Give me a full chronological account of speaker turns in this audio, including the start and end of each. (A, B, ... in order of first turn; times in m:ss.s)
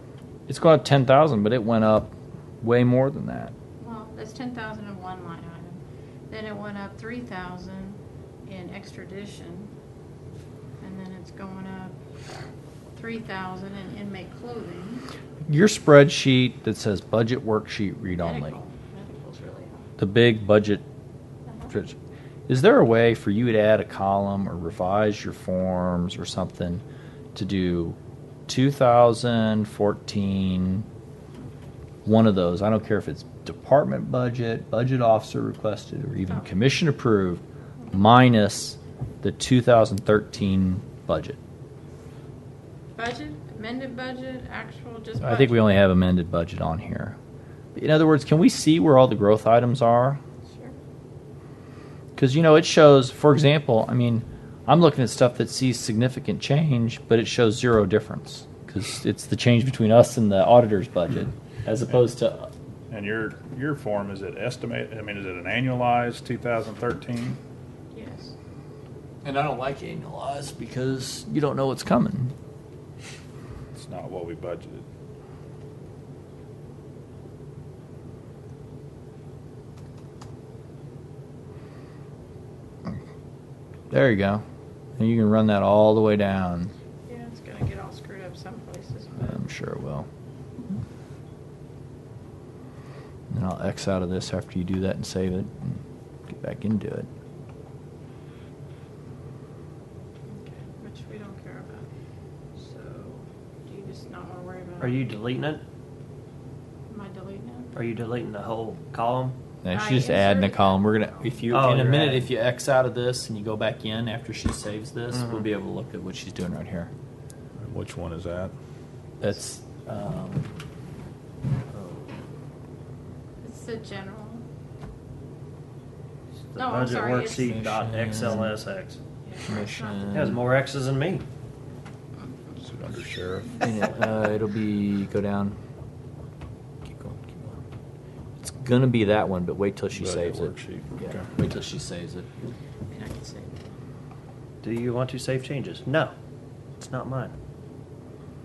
0:00.5-0:03.5 A
0:03.8-0:09.7 B
0:10.8-0:11.9 B
0:12.9-0:15.1 B
0:15.4-0:18.6 A
0:18.2-0:19.9 B
0:20.0-0:20.8 A
0:21.4-0:21.7 B
0:22.5-0:26.8 A
0:27.3-0:30.8 A
0:32.0-0:41.4 A
0:36.3-0:36.5 B
0:43.0-0:45.6 B
0:45.2-0:47.2 A
0:47.7-0:50.2 A
0:50.5-0:50.8 B
0:52.2-1:02.5 A
1:02.9-1:07.4 C
1:07.9-1:08.3 B
1:09.2-1:12.3 A
1:13.7-1:14.8 C
1:23.9-1:24.4 A
1:25.0-1:26.7 A
1:27.1-1:29.4 B
1:29.2-1:30.1 A
1:33.3-1:37.1 A
1:40.3-1:41.9 B
1:42.6-1:45.0 B
1:44.8-1:45.6 D
1:46.9-1:47.7 B
1:47.7-1:49.4 D
1:49.6-1:56.9 A
1:49.7-1:51.4 B
1:51.5-1:52.3 D
1:55.1-1:55.5 D
1:57.6-1:58.5 C
1:59.2-2:00.5 A
2:01.7-2:02.2 D
2:03.4-2:04.4 B
2:06.5-2:09.0 D
2:06.5-2:07.6 B
2:07.3-2:08.6 A
2:09.2-2:10.3 B
2:09.4-2:10.4 A
2:10.1-2:11.2 D
2:12.6-2:13.7 C
2:13.6-2:15.6 A
2:16.8-2:17.6 A
2:18.4-2:22.3 A
2:19.9-2:21.3 C
2:22.9-2:23.5 B
2:24.6-2:26.1 D
2:26.8-2:27.3 D